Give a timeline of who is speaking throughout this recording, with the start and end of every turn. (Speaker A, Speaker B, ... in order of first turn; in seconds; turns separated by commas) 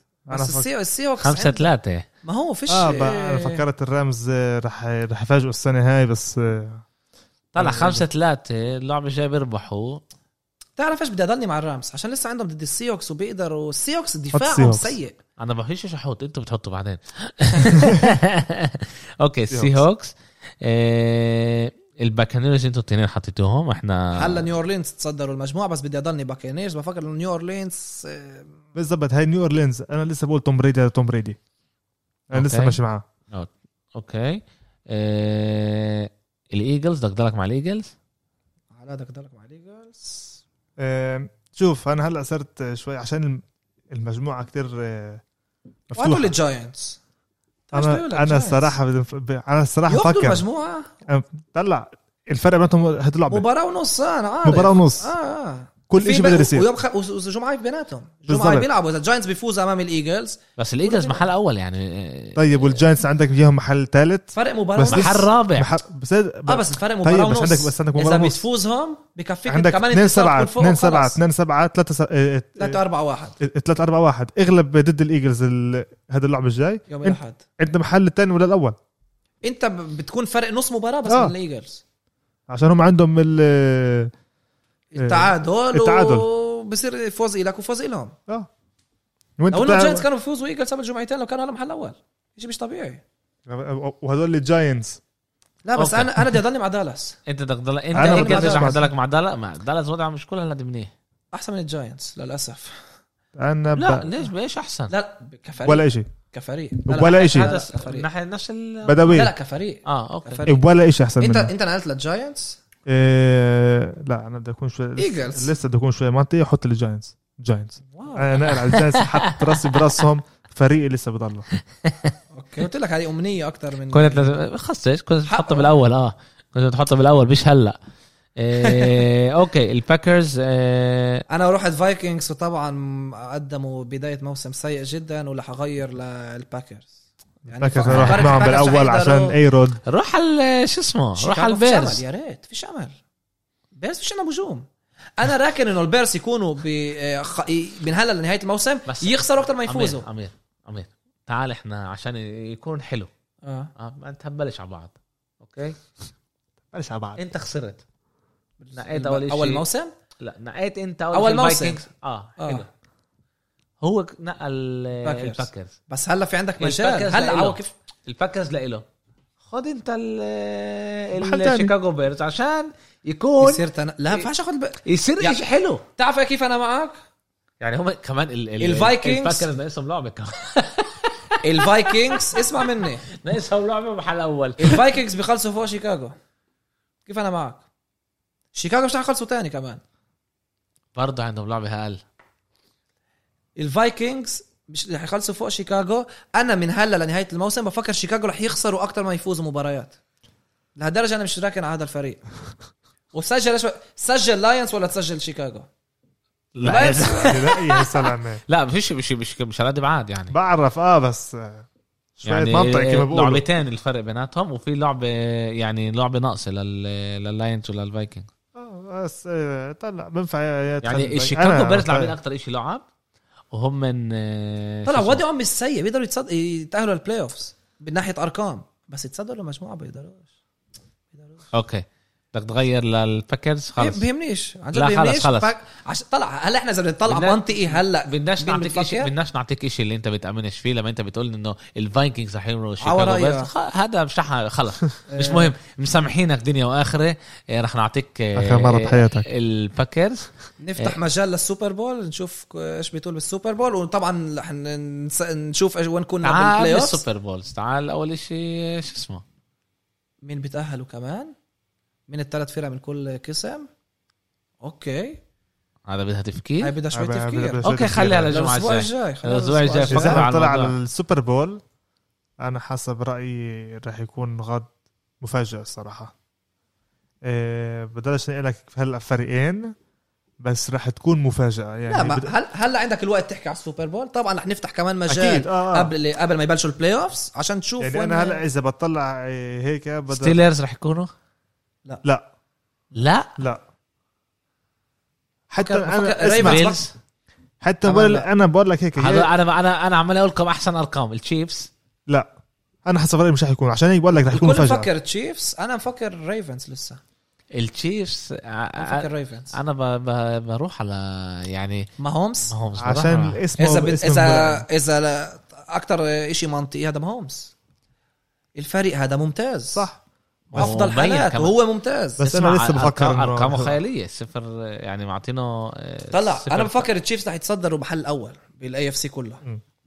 Speaker A: 0.3-0.7, Speaker B: 0.3-1.7, Speaker C: 1.2-2.1, Speaker B: 2.2-3.6, Speaker A: 2.7-6.8, Speaker C: 7.5-10.0, Speaker A: 7.6-8.1, Speaker B: 10.8-15.2, Speaker A: 14.3-15.0, Speaker C: 15.4-24.5, Speaker A: 19.5-19.8, Speaker B: 24.1-28.5, Speaker A: 28.8-31.4, Speaker A: 32.3-33.0, Speaker C: 32.3-32.8, Speaker C: 33.3-37.9, Speaker B: 38.8-40.4, Speaker A: 40.8-45.2, Speaker A: 45.9-46.3, Speaker B: 45.9-47.0, Speaker B: 47.7-48.8, Speaker A: 47.7-50.4, Speaker B: 49.9-50.9, Speaker A: 51.1-53.5, Speaker B: 53.3-61.3, Speaker A: 54.4-55.1, Speaker A: 55.9-56.7, Speaker A: 58.3-58.7, Speaker C: 60.6-62.8, Speaker A: 62.4-68.4, Speaker B: 64.3-65.3, Speaker C: 64.9-65.7, Speaker B: 66.5-71.2, Speaker A: 69.5-72.8, Speaker B: 72.6-73.4, Speaker A: 73.4-78.8, Speaker B: 76.9-77.4, Speaker B: 79.4-81.8, Speaker A: 81.1-81.3, Speaker A: 82.5-84.1, Speaker B: 84.9-88.2, Speaker A: 85.0-86.3, Speaker A: 89.4-90.0, Speaker B: 89.5-93.0, Speaker A: 93.5-95.0, Speaker B: 95.7-97.2, Speaker C: 95.8-96.2, Speaker C: 97.3-100.9, Speaker A: 97.9-98.9, Speaker B: 98.0-98.9, Speaker B: 101.3-102.8, Speaker A: 103.4-104.1, Speaker C: 103.8-104.9, Speaker B: 104.9-108.1, Speaker A: 105.6-106.1, Speaker A: 106.8-107.5, Speaker C: 107.2-109.3, Speaker A: 108.8-109.3, Speaker B: 109.1-110.6, Speaker C: 109.9-110.5, Speaker A: 110.5-111.5, Speaker B: 111.2-112.6, Speaker A: 112.9-121.5, Speaker B: 115.0-115.5, Speaker B: 117.9-118.4, Speaker C: 118.5-119.9, Speaker C: 121.8-122.1, Speaker B: 122.3-124.3, Speaker C: 123.9-127.8, Speaker B: 125.3-125.7, Speaker C: 128.4-131.2, Speaker B: 128.6-129.0, Speaker B: 131.3-136.9, Speaker B: 137.5-139.3, Speaker A: 137.5-139.8, Speaker C: 137.8-138.4, Speaker C: 139.9-142.0, Speaker B: 141.2-143.0, Speaker B: 143.8-144.7, Speaker B: 145.2-150.1, Speaker C: 148.9-153.1, Speaker B: 153.4-153.7, Speaker C: 153.8-155.8, Speaker A: 156.7-157.2, Speaker C: 157.2-157.8, Speaker B: 158.6-159.9, Speaker C: 158.7-159.6, Speaker C: 160.2-162.7, Speaker B: 161.1-161.8, Speaker B: 162.4-162.7, Speaker C: 163.8-165.7, Speaker B: 165.0-167.7, Speaker C: 166.6-168.8, Speaker C: 169.4-173.6, Speaker A: 171.2-171.7, Speaker B: 173.4-175.4, Speaker C: 174.8-175.8, Speaker B: 176.0-177.0, Speaker C: 177.6-185.0, Speaker B: 178.6-179.5, Speaker B: 181.4-183.1, Speaker B: 184.6-186.2, Speaker B: 187.1-187.6, Speaker B: 188.6-189.8, Speaker C: 190.9-192.0, Speaker B: 193.6-200.0, Speaker B: 200.8-202.2, Speaker B: 203.1-205.7, Speaker C: 206.6-210.4, Speaker A: 206.6-208.4, Speaker B: 206.6-207.3, Speaker A: 210.3-211.7, Speaker A: 212.2-213.4, Speaker C: 212.2-218.3, Speaker A: 218.6-222.2, Speaker C: 220.8-222.8, Speaker C: 223.5-225.2, Speaker B: 224.9-230.3, Speaker B: 231.1-231.5, Speaker C: 231.5-234.1, Speaker B: 233.8-239.1, Speaker C: 234.7-235.5, Speaker C: 237.1-251.0, Speaker B: 242.8-243.5, Speaker B: 245.1-245.5, Speaker A: 248.3-249.3, Speaker B: 250.6-257.0, Speaker C: 256.2-259.2, Speaker B: 260.2-261.3, Speaker B: 262.1-263.7, Speaker B: 264.6-265.2, Speaker C: 265.9-266.7, Speaker B: 266.6-267.6, Speaker A: 266.9-268.4, Speaker C: 267.6-270.8, Speaker B: 268.3-270.3, Speaker A: 269.9-271.6, Speaker A: 272.4-276.1, Speaker A: 277.2-279.7, Speaker A: 280.4-282.3, Speaker B: 281.9-288.4, Speaker A: 285.1-285.9, Speaker A: 287.8-290.4, Speaker C: 290.1-291.1, Speaker C: 292.9-293.4, Speaker A: 295.5-296.6, Speaker B: 295.6-296.8, Speaker C: 296.4-296.9, Speaker A: 297.6-299.3, Speaker B: 297.8-298.3, Speaker C: 299.0-301.7, Speaker A: 302.9-304.9, Speaker B: 304.3-307.0, Speaker C: 307.6-311.9, Speaker B: 308.8-309.6, Speaker B: 312.0-312.5, Speaker C: 312.5-313.4, Speaker A: 312.8-314.6, Speaker B: 313.6-317.5, Speaker B: 318.6-319.9, Speaker A: 319.8-320.0, Speaker C: 320.5-321.6, Speaker B: 320.6-322.3, Speaker A: 322.2-323.8, Speaker C: 322.2-326.9, Speaker B: 326.1-329.4